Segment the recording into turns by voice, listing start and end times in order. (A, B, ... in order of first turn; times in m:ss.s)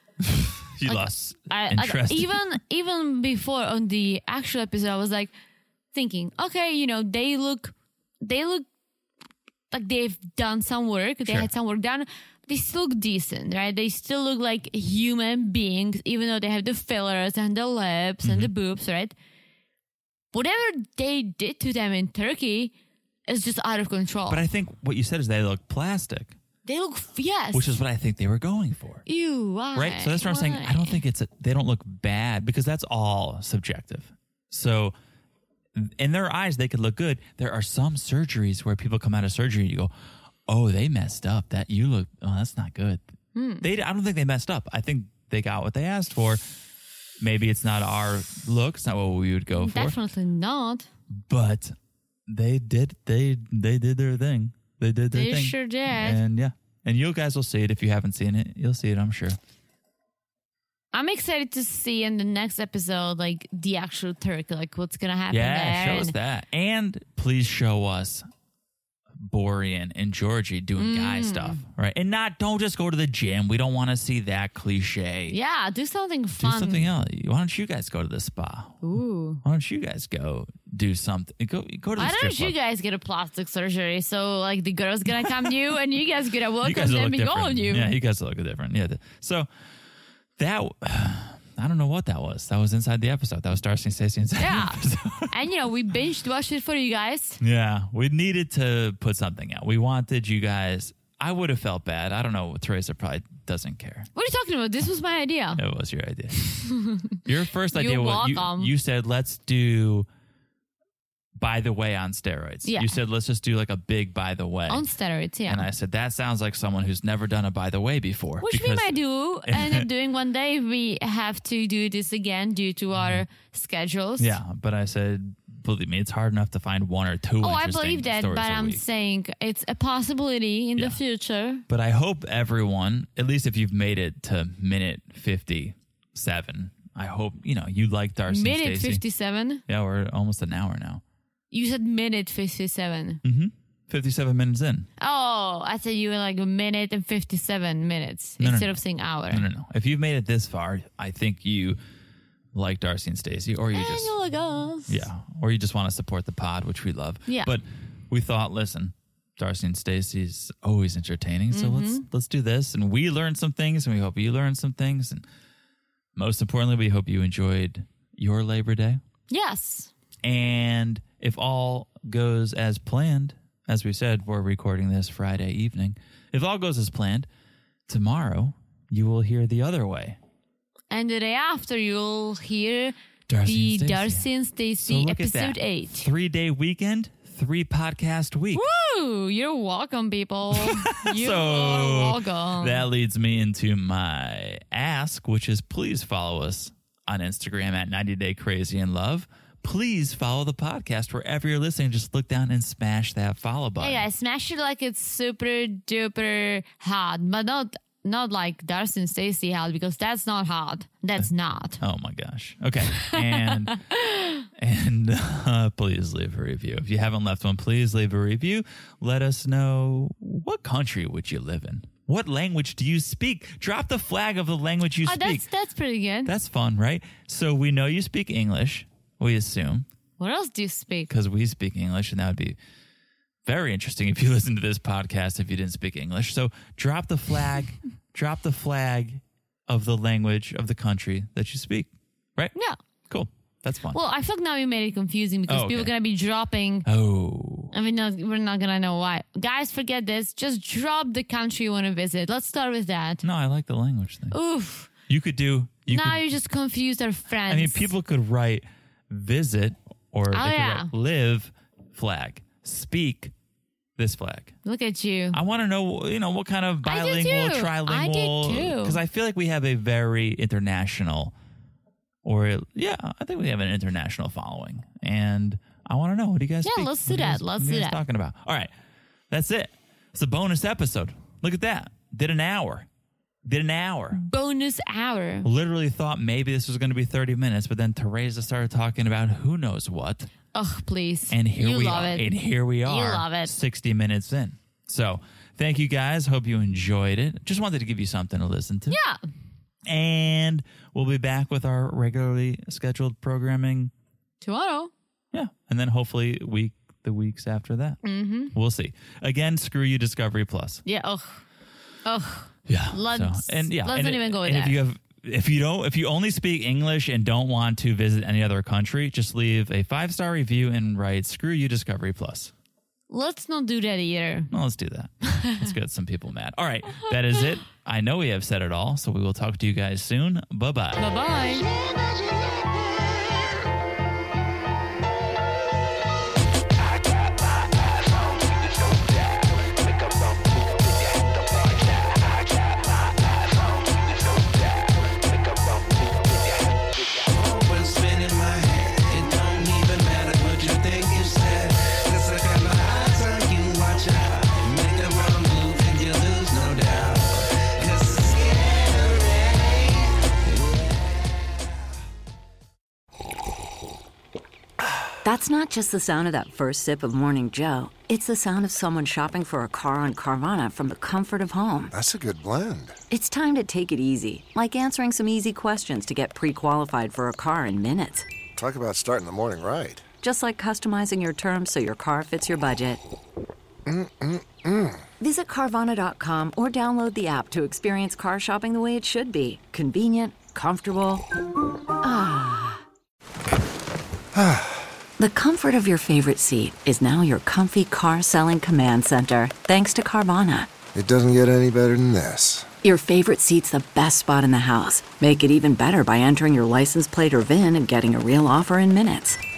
0:00.2-0:02.6 A
0:00.8-0:05.3 B
0:05.9-0:08.7 B
0:09.7-0:19.2 B
0:11.2-0:11.5 A
0:18.2-0:18.5 A
0:20.3-0:22.7 B
0:23.3-0:24.4 B
0:24.3-0:26.4 A
0:26.7-0:27.8 B
0:27.5-0:29.0 A
0:29.1-0:31.0 B
0:29.7-0:34.9 A
0:35.8-0:39.9 A
0:40.5-0:43.0 A
0:43.4-0:43.7 B
0:43.6-0:46.4 A
0:47.2-0:50.0 A
0:49.6-0:50.9 B
0:51.1-0:51.7 A
0:52.3-0:59.4 A
0:55.1-0:56.2 B
1:00.9-1:06.2 B
1:05.3-1:08.2 A
1:09.2-1:15.4 A
1:10.8-1:11.6 B
1:15.3-1:16.9 B
1:16.4-1:18.9 A
1:18.8-1:19.4 B
1:19.4-1:22.6 A
1:22.0-1:27.9 B
1:26.6-1:29.5 A
1:30.4-1:35.3 A
1:34.4-1:37.4 B
1:37.4-1:44.1 A
1:44.2-1:45.6 B
1:45.6-1:46.5 A
1:46.3-1:47.2 B
1:47.2-1:50.1 A
1:47.7-1:48.7 B
1:51.4-1:54.8 A
1:52.6-1:52.9 B
1:54.7-1:55.7 B
1:55.5-1:59.9 A
1:58.4-2:04.4 B
2:03.0-2:03.2 A
2:04.2-2:08.8 A
2:07.4-2:11.6 B
2:11.7-2:19.0 A
2:18.3-2:19.6 B
2:19.7-2:21.0 A
2:21.5-2:23.2 B
2:23.2-2:24.9 A
2:25.0-2:29.5 B
2:28.4-2:31.8 A
2:32.5-2:34.1 A
2:33.7-2:35.1 B
2:34.9-2:45.2 A
2:37.3-2:37.5 B
2:41.5-2:42.0 B
2:46.2-2:49.0 A
2:49.3-2:49.9 B
2:50.2-2:57.3 A
2:57.9-3:00.2 A
3:00.9-3:06.1 B
3:03.3-3:04.3 A
3:04.8-3:08.6 A
3:08.5-3:12.9 B
3:10.5-3:24.0 A
3:23.8-3:31.8 B
3:31.2-3:33.8 A
3:32.9-3:34.5 B
3:34.6-3:45.4 A
3:45.0-3:46.3 B
3:46.2-3:49.9 A
3:50.2-3:51.1 B
3:51.1-3:52.6 A
3:53.4-4:02.5 A
4:03.1-4:04.0 A
4:03.9-4:06.9 B
4:05.5-4:05.9 A
4:06.9-4:07.7 A
4:07.7-4:13.2 B
4:13.2-4:14.4 A
4:14.3-4:14.9 B
4:15.1-4:16.2 A
4:15.9-4:17.9 B
4:17.5-4:23.3 A
4:20.3-4:20.9 B
4:24.0-4:24.6 A
4:24.6-4:25.4 B
4:25.3-4:31.4 A
4:26.8-4:29.0 B
4:32.2-4:38.7 A
4:36.6-4:38.0 B
4:39.3-4:42.9 A
4:43.4-4:44.2 A
4:44.1-4:45.5 B
4:45.4-4:50.3 A
4:50.5-4:52.3 B
4:51.3-4:59.0 A
4:52.8-4:53.5 B
4:58.9-4:59.2 B
4:59.9-5:03.9 A
5:04.4-5:04.9 B
5:05.3-5:08.0 A
5:08.0-5:08.6 B
5:08.5-5:10.8 A
5:10.9-5:11.4 B
5:12.0-5:14.8 B
5:12.7-5:22.5 A
5:23.1-5:24.5 B
5:24.5-5:31.0 A
5:25.3-5:25.7 B
5:31.0-5:31.7 B
5:45.4-6:00.1 C
6:05.2-6:11.9 D
6:11.9-6:13.0 E
6:13.1-6:18.2 D
6:18.6-6:20.0 E
6:20.2-6:23.0 D
6:23.9-6:25.0 E
6:25.2-6:31.2 D
6:32.0-6:32.8 D
6:34.3-6:34.8 E
6:35.2-6:40.7 D
6:40.9-6:42.7 E
6:42.8-6:49.4 D